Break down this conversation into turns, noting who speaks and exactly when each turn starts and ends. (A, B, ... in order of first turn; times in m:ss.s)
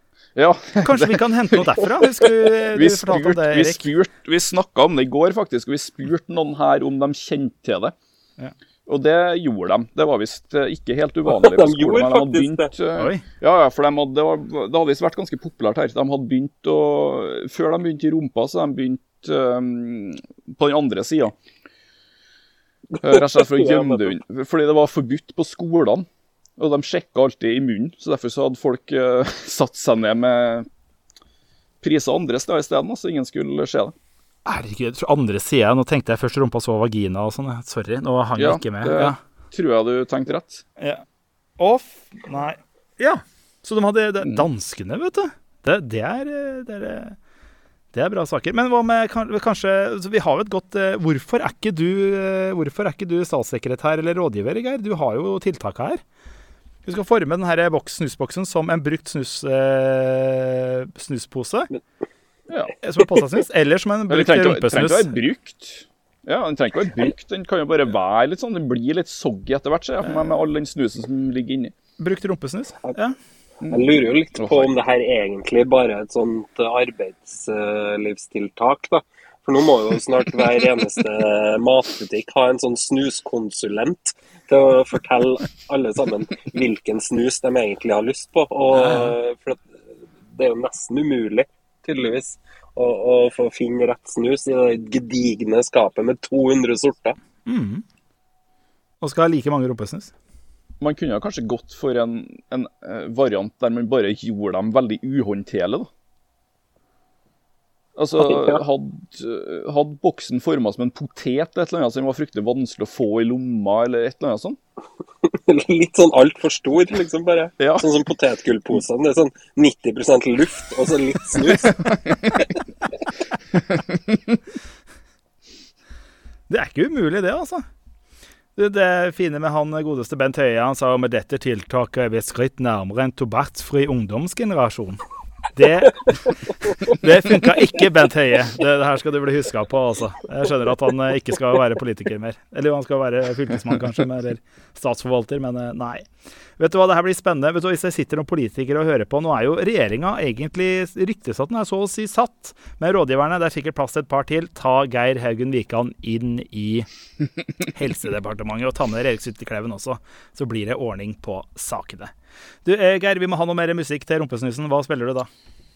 0:00.3-0:01.6 A
0:00.8-0:03.8 B
0:02.7-0:07.9 A
0:08.9-0:21.3 A
0:11.2-0:12.7 C
0:13.0-0:13.2 B
0:23.0-0:26.1 A
0:23.0-0:24.1 C
0:26.6-0:30.7 A
0:31.8-0:33.9 A
0:34.4-0:39.2 B
0:38.4-0:40.6 A
0:40.8-0:41.0 B
0:41.6-0:47.2 B
0:47.9-0:56.0 B
0:56.8-1:01.7 B
1:02.8-1:05.2 B
1:04.1-1:11.7 A
1:12.0-1:13.2 B
1:13.7-1:29.7 C
1:14.4-1:14.7 A
1:28.7-1:29.2 B
1:30.3-1:37.2 C
1:37.4-1:37.8 B
1:39.0-1:40.1 B
1:40.8-1:45.9 A
1:48.0-1:54.6 A
1:48.2-1:48.6 C
1:55.2-2:01.8 C
1:57.6-1:57.8 A
2:01.6-2:02.5 A
2:03.5-2:04.4 A
2:06.5-2:07.6 B
2:08.6-2:15.0 B
2:15.5-2:26.0 B
2:26.6-2:36.9 B
2:37.7-2:42.1 B
2:42.6-2:45.3 B